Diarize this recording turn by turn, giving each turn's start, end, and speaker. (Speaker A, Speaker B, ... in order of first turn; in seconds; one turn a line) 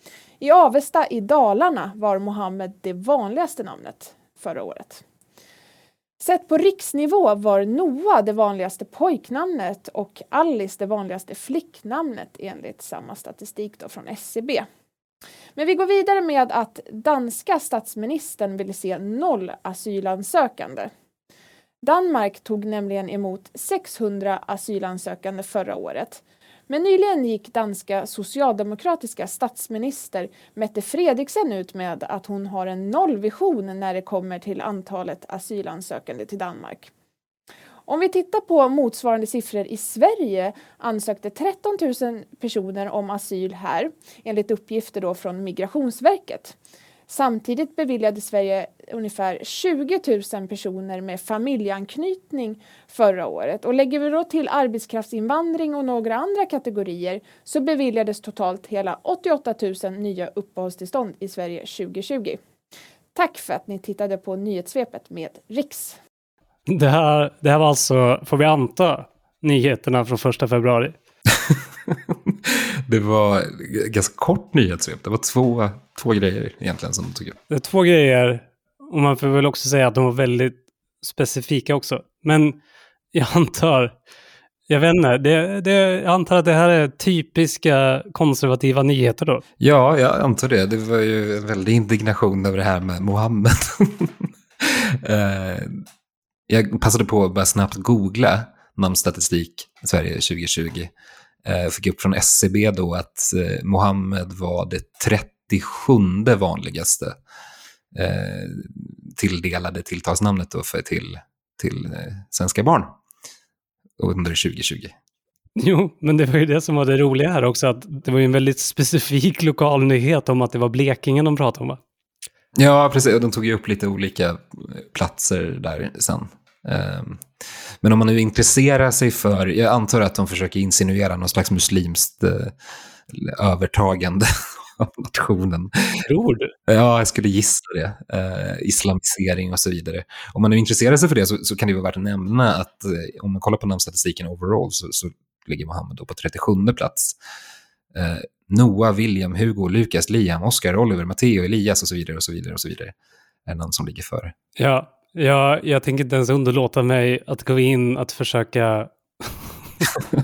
Speaker A: 0.4-5.0
Speaker A: 6.2-14.7
Speaker A: 15.6-20.9
Speaker A: 21.8-36.9
Speaker A: 37.9-46.5
Speaker A: 47.1-62.4
Speaker A: 63.1-66.0
Speaker B: 66.7-71.0
Speaker C: 71.3-77.4
Speaker B: 77.5-82.6
Speaker B: 83.1-84.0
Speaker B: 84.7-89.4
Speaker C: 89.6-95.8
Speaker C: 96.5-100.9
Speaker C: 101.4-107.2
Speaker C: 107.9-113.0
Speaker C: 114.0-114.9
Speaker B: 115.5-121.8
Speaker C: 122.5-127.2
Speaker C: 127.8-132.5
Speaker C: 133.1-135.9
Speaker B: 136.1-136.5
Speaker C: 136.7-147.2
Speaker C: 147.9-152.9
Speaker C: 153.4-154.3
Speaker B: 154.6-159.6